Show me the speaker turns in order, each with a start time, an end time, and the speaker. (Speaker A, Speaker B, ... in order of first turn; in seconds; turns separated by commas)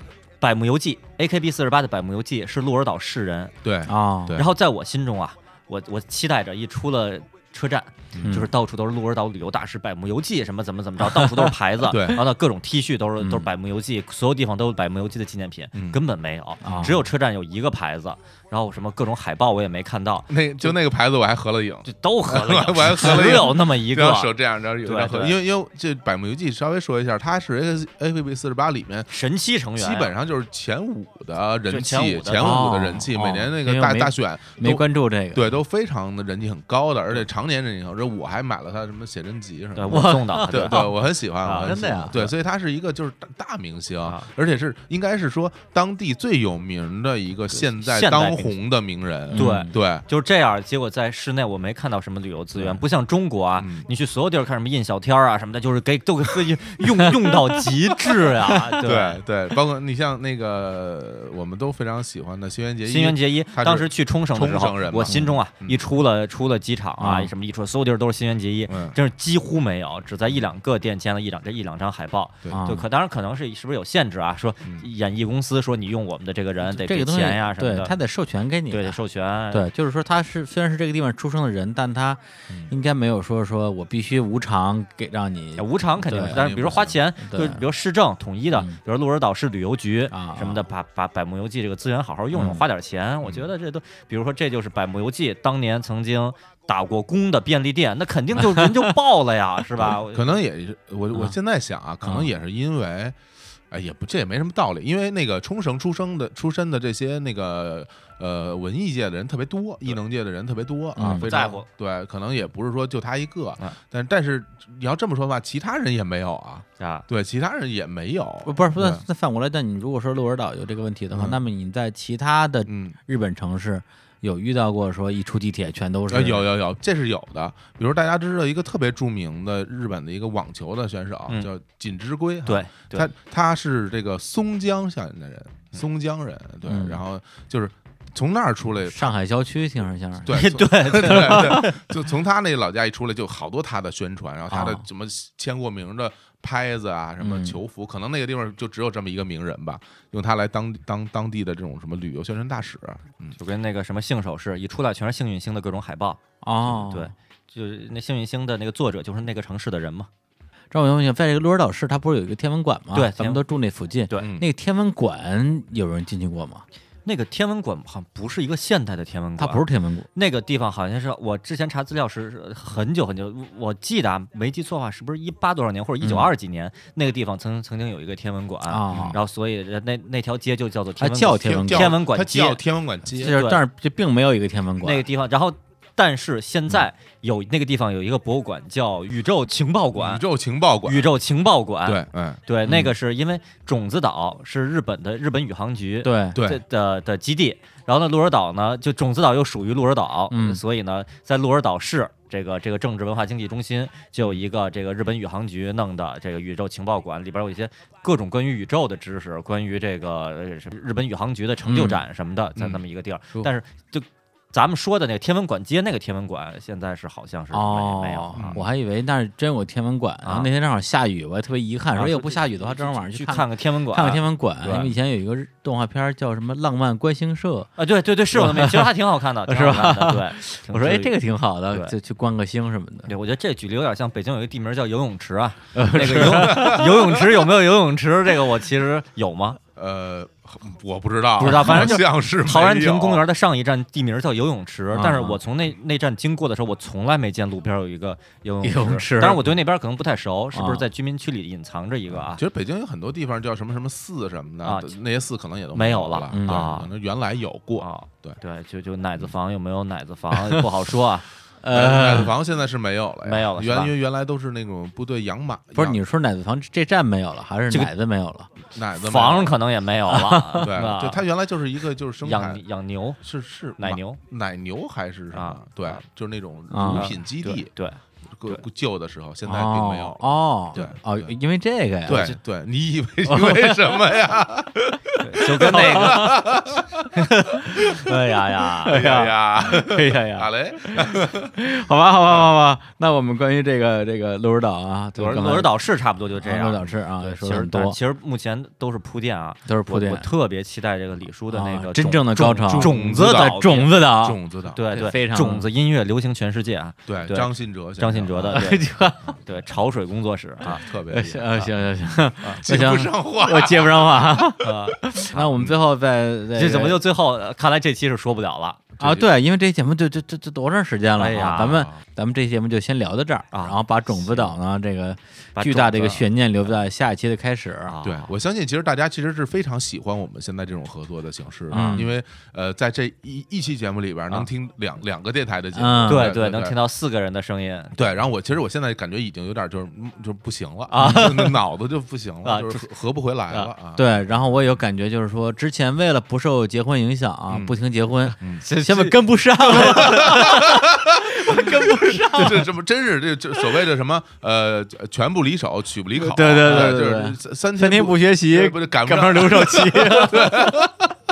Speaker A: 0.4-3.5, Speaker B: 3.6-4.5, Speaker C: 3.9-4.4, Speaker A: 4.3-20.7, Speaker B: 8.1-8.4, Speaker C: 8.2-8.5, Speaker B: 11.8-12.2, Speaker C: 13.2-13.5, Speaker B: 15.7-16.0, Speaker C: 16.6-17.0, Speaker B: 16.6-16.9, Speaker B: 20.3-29.1, Speaker A: 21.8-25.4, Speaker A: 29.1-30.1, Speaker B: 29.8-50.0, Speaker A: 31.7-32.6, Speaker C: 32.4-35.6, Speaker A: 39.7-42.3, Speaker C: 39.9-41.0, Speaker C: 41.6-42.2, Speaker A: 44.0-44.3, Speaker A: 47.5-48.6, Speaker C: 49.3-49.7, Speaker A: 49.3-59.2, Speaker B: 53.6-53.9, Speaker B: 58.8-65.8, Speaker A: 62.8-78.0, Speaker C: 65.0-65.3, Speaker C: 67.0-67.3, Speaker B: 68.7-69.0, Speaker C: 72.5-72.8, Speaker C: 76.7-79.0, Speaker A: 78.7-79.7, Speaker C: 79.5-86.4, Speaker A: 85.6-100.4, Speaker B: 86.1-87.0, Speaker C: 87.2-87.6, Speaker C: 90.1-90.6, Speaker C: 92.3-92.6, Speaker C: 98.5-98.8, Speaker B: 99.8-103.2, Speaker C: 102.0-102.3, Speaker B: 103.7-119.0, Speaker C: 111.0-111.5, Speaker A: 111.2-111.7, Speaker A: 116.8-117.0, Speaker C: 118.4-126.5, Speaker B: 121.1-121.4, Speaker B: 122.7-123.0, Speaker B: 126.1-139.1, Speaker A: 132.4-133.1, Speaker C: 136.6-137.0, Speaker C: 138.9-140.4, Speaker B: 140.2-153.4, Speaker A: 140.3-141.8, Speaker C: 141.0-141.7, Speaker C: 144.5-144.8, Speaker C: 147.2-147.6, Speaker A: 153.3-160.1, Speaker C: 156.4-157.1, Speaker C: 160.7-166.6, Speaker A: 162.9-163.4, Speaker B: 164.2-164.5, Speaker A: 167.0-169.6, Speaker C: 169.4-170.1, Speaker A: 170.1-182.6, Speaker C: 176.0-176.3, Speaker C: 178.7-179.2, Speaker B: 178.9-179.2, Speaker C: 181.0-181.9, Speaker B: 181.4-183.4, Speaker C: 183.1-185.1, Speaker A: 183.2-183.6, Speaker A: 184.8-190.2, Speaker B: 189.9-191.1, Speaker A: 190.8-218.6, Speaker B: 191.8-192.4, Speaker C: 196.0-196.4, Speaker B: 196.3-196.6, Speaker C: 200.3-200.6, Speaker C: 211.7-212.0, Speaker B: 212.6-212.8, Speaker C: 217.5-227.7, Speaker B: 218.3-218.7, Speaker A: 220.2-220.5, Speaker A: 221.9-224.9, Speaker A: 227.8-231.2, Speaker C: 228.3-228.9, Speaker C: 229.4-233.1, Speaker A: 233.1-239.6, Speaker C: 235.7-236.8, Speaker B: 236.0-237.2, Speaker B: 239.8-243.2, Speaker A: 241.4-252.4, Speaker C: 241.4-242.0, Speaker C: 244.9-245.4, Speaker C: 248.6-249.5, Speaker C: 250.5-250.8, Speaker B: 252.1-258.4, Speaker A: 254.6-254.9, Speaker A: 255.7-256.9, Speaker C: 256.3-256.7, Speaker A: 257.8-261.3, Speaker C: 261.6-262.3, Speaker B: 261.7-266.0, Speaker A: 263.2-263.9, Speaker C: 265.7-268.5, Speaker B: 268.7-269.6, Speaker A: 269.0-271.2, Speaker C: 270.1-270.6, Speaker B: 270.6-272.6, Speaker A: 272.2-273.2, Speaker B: 273.2-277.7, Speaker A: 273.8-274.2, Speaker A: 275.3-276.0, Speaker C: 276.7-277.1, Speaker A: 276.9-278.6, Speaker B: 278.3-281.3, Speaker C: 279.4-282.4, Speaker B: 282.0-287.1, Speaker C: 283.2-283.9, Speaker A: 285.2-286.3, Speaker C: 285.4-286.4, Speaker B: 287.7-288.1, Speaker A: 287.8-289.0, Speaker C: 288.8-295.7, Speaker B: 288.9-291.5, Speaker A: 295.1-304.0, Speaker C: 296.4-298.0, Speaker C: 299.6-300.3, Speaker C: 301.5-304.4, Speaker B: 302.7-304.9, Speaker A: 304.7-310.8, Speaker C: 304.9-305.7, Speaker B: 307.1-308.9, Speaker C: 308.5-309.3, Speaker B: 310.6-311.7, Speaker C: 310.7-317.0, Speaker B: 312.6-314.6, Speaker A: 314.6-315.1, Speaker B: 315.3-315.7, Speaker A: 316.5-318.8, Speaker B: 319.0-319.3, Speaker C: 319.0-327.9, Speaker A: 321.2-321.9, Speaker B: 321.6-322.0, Speaker A: 323.5-324.5, Speaker A: 325.6-326.3, Speaker A: 327.9-328.3, Speaker B: 328.0-336.8, Speaker C: 331.7-332.1, Speaker A: 331.7-332.1, Speaker C: 335.7-336.3, Speaker A: 336.1-338.2, Speaker B: 337.9-344.1, Speaker A: 340.9-341.6, Speaker C: 341.0-341.3, Speaker A: 342.4-342.8, Speaker C: 343.9-352.7, Speaker B: 347.5-347.8, Speaker B: 348.4-348.6, Speaker A: 348.6-350.6, Speaker B: 349.7-361.1, Speaker C: 356.2-360.9